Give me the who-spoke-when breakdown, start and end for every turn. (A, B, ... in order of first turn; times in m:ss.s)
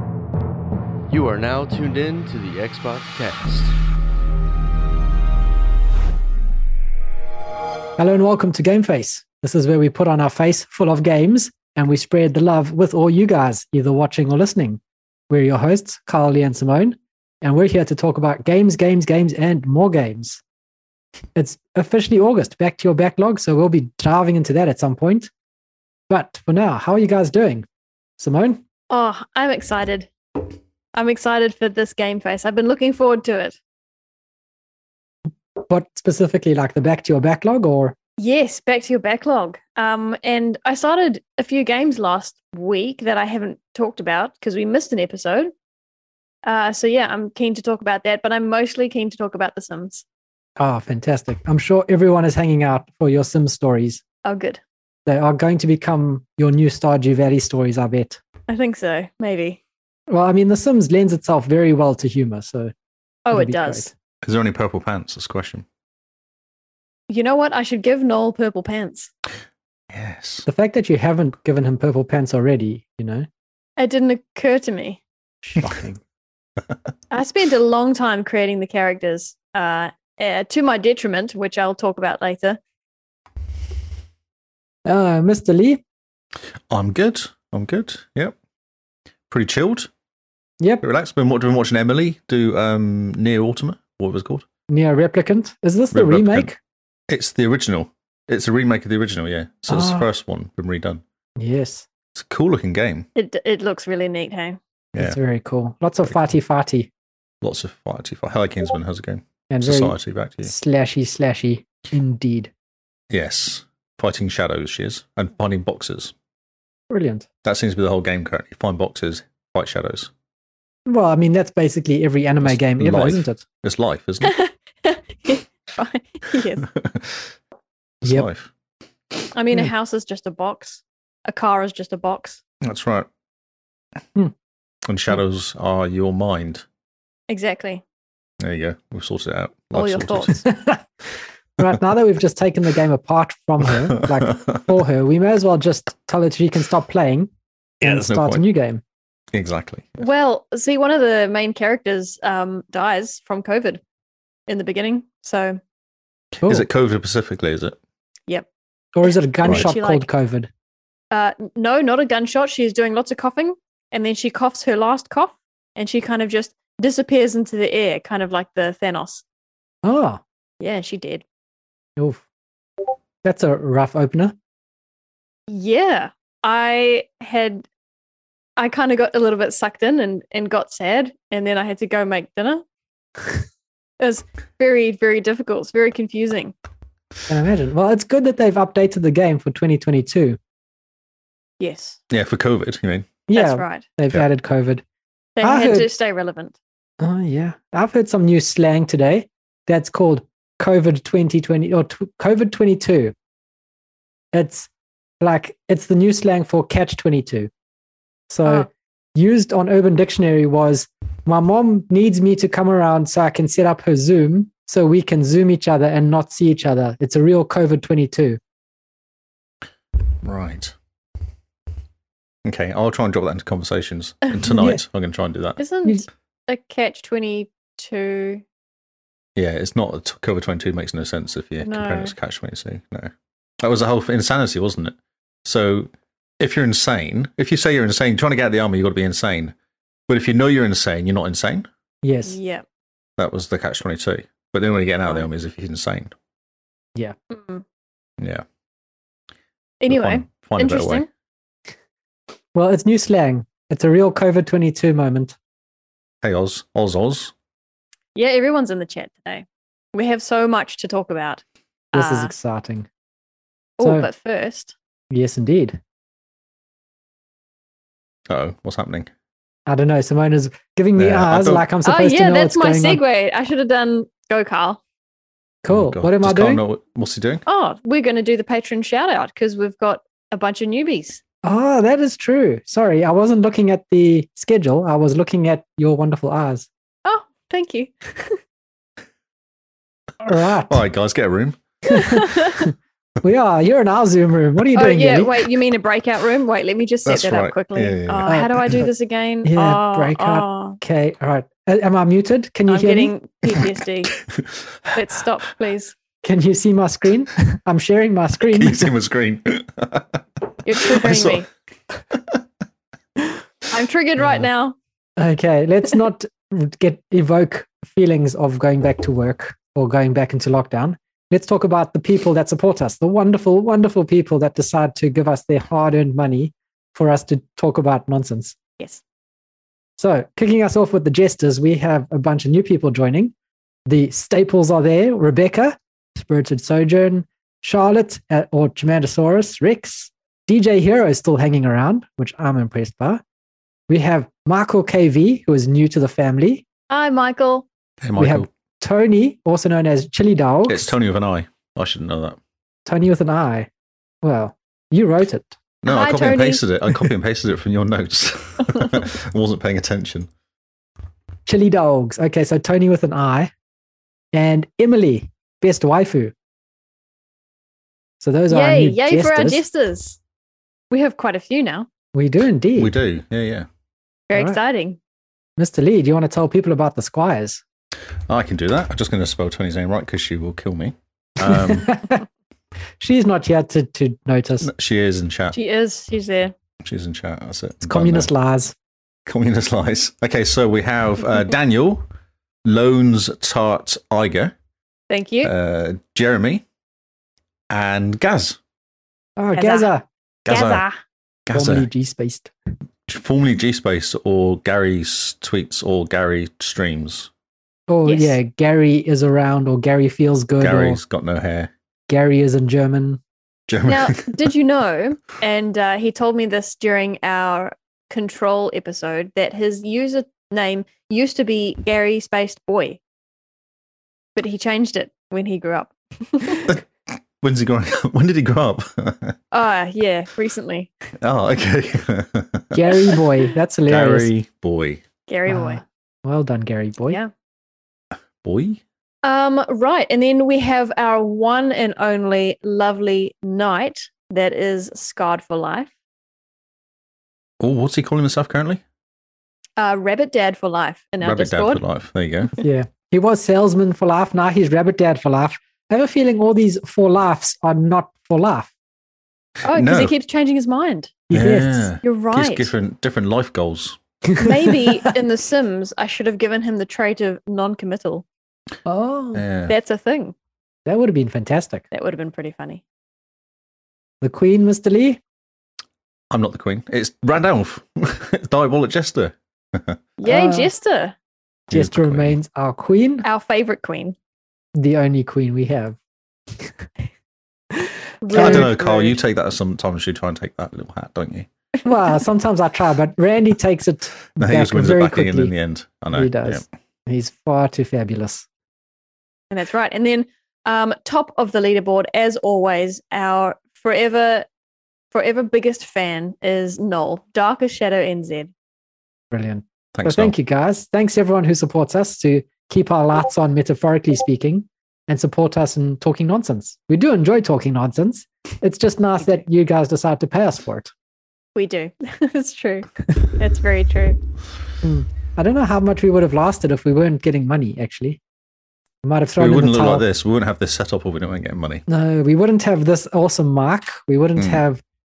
0:01.1-0:03.7 A
0:08.0-0:20.4 B
0:21.4-0:25.3 B
0:26.1-0:27.7 B
0:28.2-0:28.6 B
0:28.9-0:30.1 C
0:30.9-0:33.6 C
0:35.7-0:37.9 B
0:38.2-0:45.5 C
0:46.4-0:50.0 C
0:50.6-0:54.0 B
0:54.2-0:54.6 C
0:55.0-0:58.2 B
0:58.5-0:59.6 C
1:00.1-1:02.7 B
1:03.2-1:03.9 C
1:03.3-1:03.9 B
1:04.2-1:05.6 D
1:07.1-1:09.1 C
1:09.9-1:10.5 D
1:10.5-1:13.3 B
1:13.8-1:15.0 C
1:15.4-1:16.0 B
1:17.1-1:22.6 C
1:24.8-1:25.8 B
1:26.7-1:28.4 D
1:29.3-1:29.9 D
1:30.8-1:34.4 D
1:34.7-1:36.6 B
1:35.9-1:36.5 D
1:37.1-1:41.0 D
1:39.7-1:40.1 B
1:41.4-1:41.9 B
1:42.1-1:43.1 D
1:43.1-1:44.6 C
1:45.0-1:46.9 B
1:47.4-1:50.5 D
1:49.5-1:52.5 B
1:53.1-1:56.1 D
1:56.9-1:57.3 B
1:57.4-2:00.1 D
2:00.8-2:03.4 B
2:02.4-2:04.3 D
2:04.2-2:06.7 C
2:06.8-2:07.2 D
2:08.0-2:08.5 D
2:09.3-2:12.4 C
2:12.6-2:13.1 D
2:14.8-2:16.6 D
2:17.3-2:17.8 C
2:18.4-2:20.3 D
2:19.7-2:20.4 C
2:20.4-2:20.8 B
2:21.6-2:27.3 B
2:24.2-2:24.6 D
2:27.8-2:28.4 D
2:27.8-2:28.8 B
2:29.3-2:30.0 D
2:30.0-2:33.8 C
2:34.5-2:35.6 C
2:36.3-2:37.8 D
2:38.9-2:40.5 B
2:39.1-2:40.1 C
2:39.4-2:39.7 D
2:41.1-2:49.2 C
2:49.8-2:50.2 B
2:50.6-2:51.2 C
2:52.0-2:52.2 B
2:53.2-2:54.3 B
2:55.5-2:57.7 C
2:58.6-3:02.6 C
3:04.0-3:06.5 C
3:07.3-3:10.4 B
3:11.6-3:12.0 C
3:12.1-3:13.2 D
3:13.3-3:14.8 B
3:13.3-3:13.8 C
3:15.4-3:16.6 C
3:15.4-3:15.9 B
3:17.0-3:23.1 B
3:24.3-3:24.7 B
3:25.2-3:27.5 B
3:28.3-3:38.4 B
3:40.2-3:40.8 D
3:42.4-3:45.6 D
3:44.5-3:44.8 B
3:45.6-3:48.4 C
3:49.4-3:59.5 D
3:51.6-3:52.1 C
4:00.1-4:01.7 D
4:02.0-4:02.4 B
4:02.3-4:02.6 C
4:03.2-4:06.1 D
4:07.3-4:07.6 C
4:08.2-4:08.4 D
4:09.8-4:11.1 C
4:09.9-4:11.0 D
4:12.5-4:15.4 B
4:16.2-4:17.3 D
4:18.1-4:21.4 C
4:21.9-4:22.9 B
4:21.9-4:22.3 C
4:23.8-4:24.7 C
4:23.8-4:24.1 B
4:25.1-4:25.8 B
4:28.3-4:29.1 D
4:29.7-4:33.0 B
4:31.0-4:31.6 D
4:31.8-4:34.8 C
4:35.6-4:36.6 B
4:35.7-4:37.4 D
4:37.4-4:41.2 C
4:41.4-4:46.7 B
4:47.0-4:48.4 C
4:50.2-4:50.8 B
4:50.7-4:51.6 D
4:51.9-4:55.4 B
4:51.9-4:52.6 C
4:54.7-5:00.8 C
4:57.0-4:58.8 D
4:58.3-4:58.6 B
4:59.4-5:03.1 B
5:02.7-5:04.2 C
5:04.3-5:04.7 D
5:04.9-5:05.9 C
5:06.2-5:08.9 B
5:08.5-5:11.4 D
5:10.6-5:11.5 C
5:13.7-5:14.8 C
5:14.2-5:14.5 B
5:15.2-5:28.6 B
5:30.0-5:33.3 B
5:33.9-5:43.2 B
5:43.9-5:46.6 B
5:46.9-5:47.7 C
5:48.0-5:48.5 D
5:48.2-5:50.9 B
5:50.7-5:52.4 D
5:52.8-5:53.7 B
5:54.2-5:55.6 B
5:55.8-6:00.3 D
5:55.8-5:56.6 C
6:01.4-6:03.5 B
6:04.3-6:06.3 B
6:08.2-6:09.6 B
6:08.5-6:10.2 C
6:10.9-6:11.9 C
6:12.1-6:12.9 B
6:12.8-6:13.7 D
6:14.3-6:15.0 C
6:15.6-6:17.6 B
6:18.3-6:21.9 D
6:21.4-6:22.2 B
6:23.0-6:24.7 B
6:24.6-6:25.6 D
6:25.5-6:26.5 C
6:26.8-6:28.3 D
6:27.8-6:28.7 B
6:29.2-6:32.1 D
6:32.6-6:34.5 D
6:35.1-6:35.5 C
6:35.4-6:36.6 D
6:37.7-6:38.6 D
6:39.4-6:40.0 B
6:39.6-6:39.9 C
6:40.4-6:40.8 D
6:40.5-6:41.0 C
6:41.5-6:41.9 D
6:41.5-6:42.5 B
6:43.1-6:47.3 D
6:47.9-6:51.0 B
6:48.0-6:48.4 C
6:50.6-6:51.7 D
6:52.1-6:53.2 B
6:53.7-6:54.5 D
6:53.8-7:03.0 C
7:04.4-7:06.7 C
7:06.7-7:09.4 D
7:09.5-7:10.9 C
7:11.2-7:13.0 D
7:12.7-7:14.3 B
7:13.9-7:15.0 D
7:15.3-7:15.8 C
7:15.5-7:17.2 B
7:18.4-7:18.8 D
7:19.2-7:25.9 C
7:27.6-7:28.8 D
7:29.8-7:31.8 C
7:31.2-7:32.5 D
7:32.6-7:38.7 B
7:39.6-7:40.1 D
7:39.6-7:41.2 C
7:41.3-7:41.9 B
7:41.3-7:44.0 D
7:42.0-7:42.7 C
7:44.3-7:45.1 B
7:44.4-7:48.2 C
7:48.8-7:49.4 B
7:49.3-7:49.7 D
7:49.7-7:50.3 C
7:50.8-7:51.8 B
7:51.9-7:52.8 C
7:54.2-7:55.2 B
7:56.3-8:00.0 D
8:00.2-8:01.1 C
8:00.2-8:00.7 B
8:01.7-8:02.4 D
8:01.7-8:03.3 B
8:03.2-8:04.2 C
8:04.7-8:06.0 B
8:08.2-8:09.2 C
8:08.3-8:08.7 B
8:08.3-8:11.5 D
8:11.8-8:15.5 B
8:14.4-8:16.6 D
8:16.1-8:18.4 B
8:19.5-8:24.5 C
8:25.1-8:28.5 C
8:29.3-8:40.9 B
8:29.9-8:30.3 D
8:41.6-8:44.2 C
8:44.8-8:48.2 B
8:49.0-8:50.0 B
8:49.4-8:51.8 D
8:51.9-8:54.8 B
8:54.4-8:54.6 D